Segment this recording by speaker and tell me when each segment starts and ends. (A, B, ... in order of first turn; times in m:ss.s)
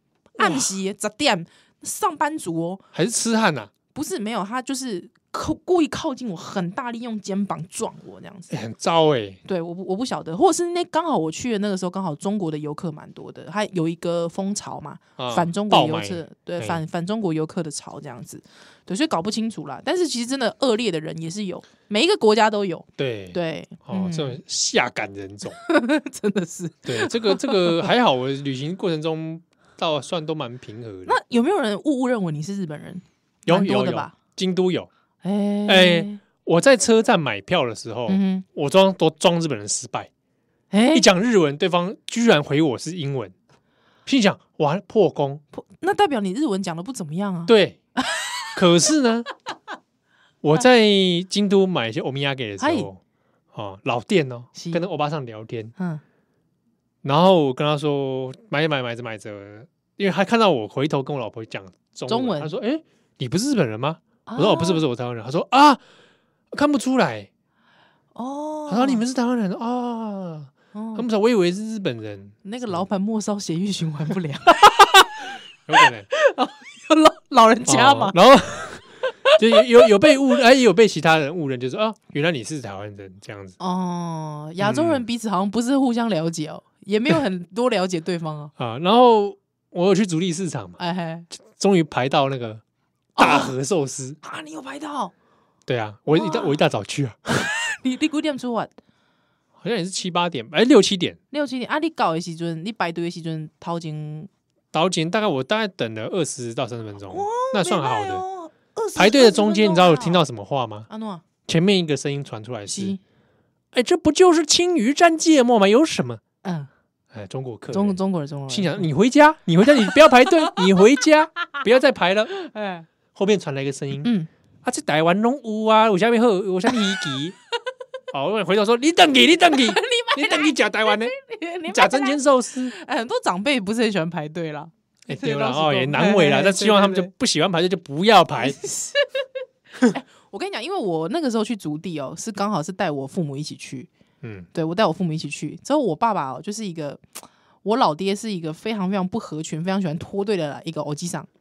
0:00.4-0:02.8 A
0:00.4-0:00.7 B
0:02.9-0:03.7 B
0:03.9-0:08.5 A
0:08.5-0:09.4 B
0:09.4-0:24.4 A
0:15.2-0:16.8 B
0:23.0-0:25.6 B
0:25.6-0:27.9 A
0:26.8-0:31.2 B
0:31.0-0:34.1 A
0:33.5-0:34.9 B
0:35.2-0:36.2 A
0:35.7-0:40.1 B
0:38.1-0:38.4 A
0:40.7-0:41.1 A
0:40.9-0:43.3 B
0:44.0-0:45.4 B
0:45.5-0:48.4 A
0:47.5-0:47.8 B
0:48.5-0:49.3 B
0:50.4-0:53.0 B
0:52.6-0:52.9 A
0:53.5-0:55.7 B
0:54.5-0:54.8 A
0:55.8-0:56.0 A
0:57.0-1:05.8 B
1:02.1-1:02.5 A
1:04.3-1:04.8 A
1:06.5-1:07.3 B
1:08.1-1:09.0 A
1:08.7-1:12.8 B
1:10.7-1:11.1 A
1:12.4-1:18.2 A
1:15.7-1:16.1 B
1:17.6-1:18.8 B
1:19.0-1:19.4 A
1:19.4-1:23.6 B
1:23.6-1:28.5 A
1:24.6-1:25.0 B
1:28.6-1:30.8 B
1:30.8-1:31.3 A
1:31.4-1:32.6 B
1:33.2-1:33.5 A
1:33.2-1:34.2 B
1:34.2-1:35.1 A
1:35.7-1:37.3 B
1:36.1-1:36.6 A
1:37.3-1:38.7 A
1:39.6-1:41.2 B
1:41.3-1:44.3 A
1:44.7-1:48.2 B
1:47.1-1:50.2 A
1:49.0-1:50.9 B
1:50.9-1:51.2 A
1:51.4-1:53.0 B
1:52.7-1:53.0 A
1:53.7-1:56.2 B
1:56.4-1:56.7 A
1:57.1-1:58.0 B
1:57.7-1:58.9 A
1:58.5-2:02.3 B
1:59.7-2:00.6 A
2:02.4-2:02.8 A
2:03.1-2:04.1 B
2:04.0-2:04.3 A
2:04.6-2:07.4 B
2:08.1-2:11.1 B
2:09.5-2:17.1 A
2:11.7-2:12.7 B
2:15.1-2:18.6 B
2:18.4-2:19.2 A
2:19.9-2:23.9 A
2:24.2-2:24.5 B
2:24.5-2:27.0 A
2:27.6-2:31.3 A